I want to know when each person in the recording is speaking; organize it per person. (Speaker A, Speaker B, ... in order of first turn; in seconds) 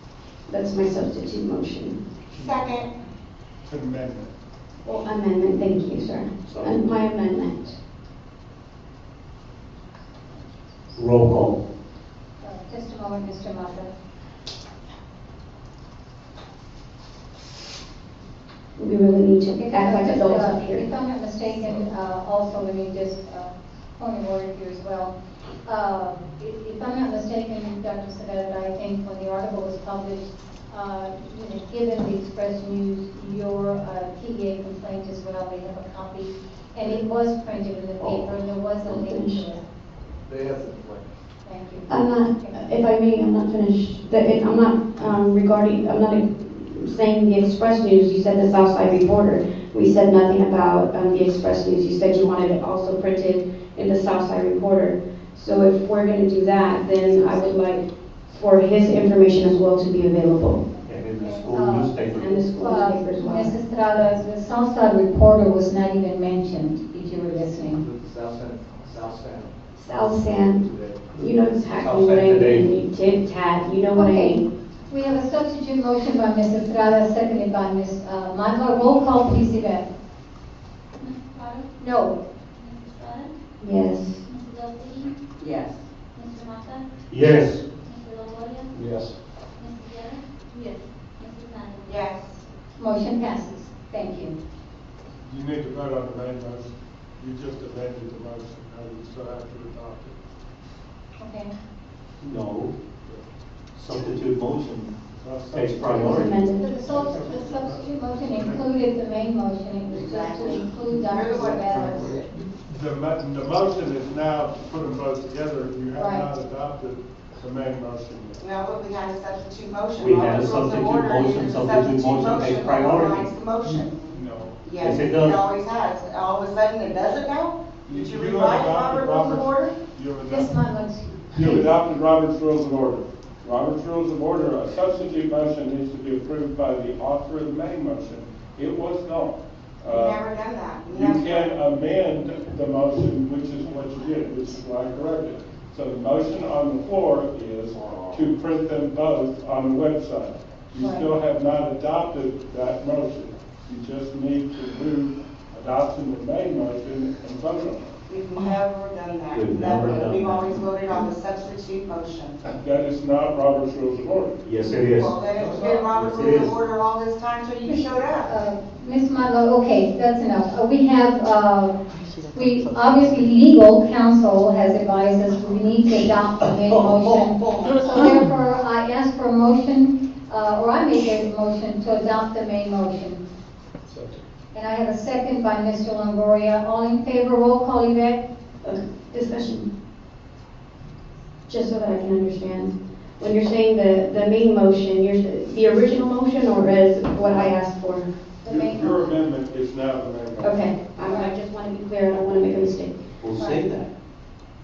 Speaker A: 0.5-2.0, 4.8-7.8, 18.8-20.9, 38.9-39.5, 41.9-60.6, 62.1-63.6, 69.8-74.5, 83.6-84.2, 105.9-106.7, 188.6-189.7, 191.5-198.1, 200.4-203.0
Speaker B: 2.3-2.9, 91.9-92.4, 109.9-112.3, 118.4-124.1, 124.6-129.8, 139.9-141.5, 158.1-162.4, 164.8-168.3
Speaker C: 3.6-4.3, 95.2-100.2, 105.2-106.3, 106.8-108.6, 112.6-118.4, 124.1-124.6, 127.9-130.6, 131.3-140.2, 140.9-157.9, 162.6-164.4, 198.4-200.7
Speaker D: 11.0-11.6, 60.9-62.4, 71.8-72.7, 87.1-87.6, 102.2-102.7, 103.8-104.9, 105.5-106.3, 120.0-123.3, 124.8-125.4, 159.3-161.0, 164.4-165.2, 165.9-166.5, 176.4-177.8, 203.2-203.9
Speaker E: 12.4-13.9, 19.5-39.7, 41.4-42.6, 61.2-62.0, 62.5-67.8, 73.9-79.9, 81.8-82.2, 92.8-94.4, 101.2-101.5, 106.6-112.2, 116.0-116.3, 130.2-131.4, 150.8-151.1, 168.2-171.8, 172.3-183.2, 184.5-188.2, 198.4-199.2, 201.0-201.3, 203.4-203.7
Speaker F: 40.2-41.1, 67.8-69.6, 70.6-71.0, 165.7-166.2
Speaker G: 81.0-81.7, 82.5-83.3, 84.2-85.2, 86.1-86.9, 87.8-88.8, 89.5-92.0
Speaker H: 85.4-85.7, 110.1-110.6, 172.1-173.3